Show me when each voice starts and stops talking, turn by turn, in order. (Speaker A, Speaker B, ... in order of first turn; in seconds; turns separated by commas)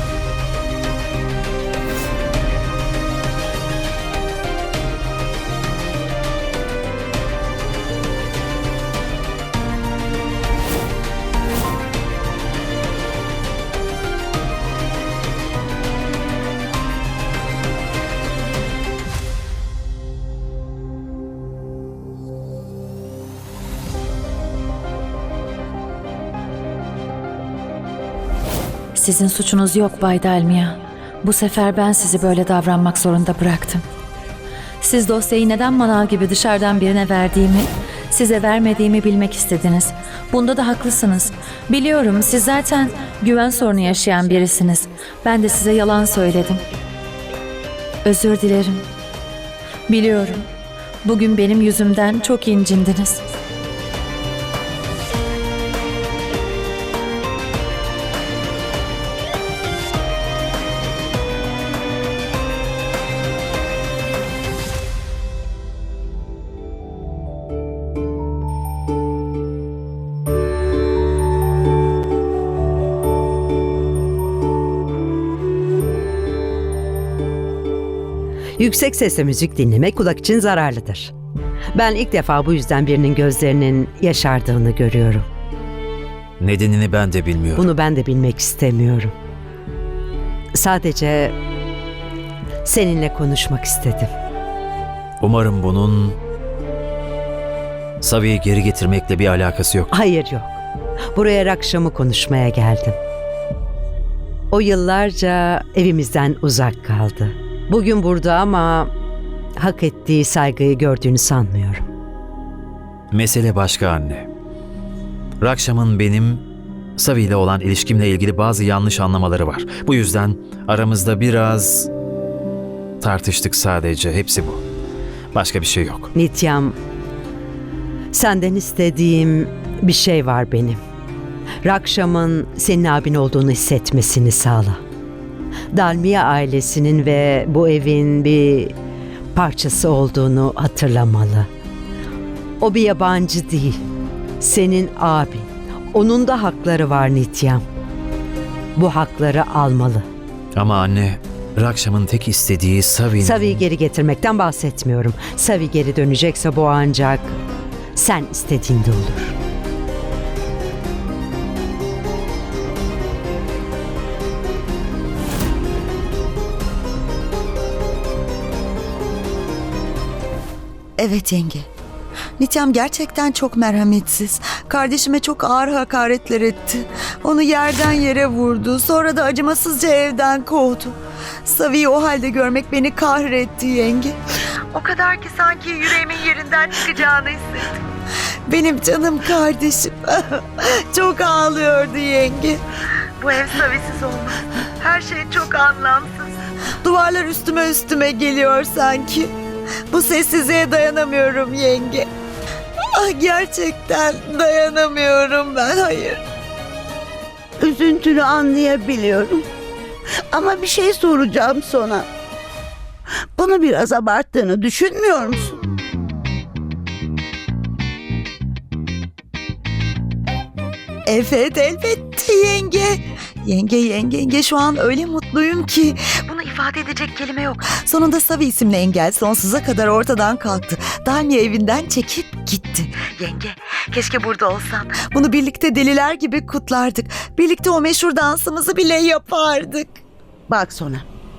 Speaker A: 28.9-33.8, Speaker A: 34.8-46.6, Speaker A: 48.0-48.9, Speaker A: 49.9-50.5, Speaker A: 51.0-53.2, Speaker B: 78.6-81.1, Speaker B: 81.7-85.3, Speaker C: 86.4-87.7, Speaker B: 87.6-89.1, Speaker B: 90.6-91.3, Speaker B: 92.6-94.1, Speaker C: 95.2-96.2, Speaker C: 98.0-99.9, Speaker B: 99.9-100.6, Speaker B: 101.1-103.0, Speaker B: 104.5-108.9, Speaker B: 109.6-111.9, Speaker C: 113.1-114.3, Speaker C: 115.4-116.4, Speaker C: 117.0-121.9, Speaker C: 123.0-124.6, Speaker C: 125.3-126.1, Speaker B: 126.1-126.8, Speaker B: 128.1-130.8, Speaker B: 131.6-134.8, Speaker B: 135.7-138.8, Speaker B: 139.3-141.5, Speaker B: 142.6-143.8, Speaker B: 144.4-147.6, Speaker B: 148.8-150.1, Speaker C: 150.6-153.6, Speaker B: 153.2-157.4, Speaker B: 157.9-159.4, Speaker D: 171.0-171.7, Speaker D: 172.4-184.2, Speaker D: 184.7-187.8, Speaker D: 188.4-192.6, Speaker D: 193.2-199.3, Speaker D: 199.9-202.1, Speaker D: 202.9-206.2, Speaker E: 207.6-209.4, Speaker E: 210.3-212.1, Speaker E: 213.4-215.6, Speaker D: 221.1-240.0, Speaker E: 240.5-241.0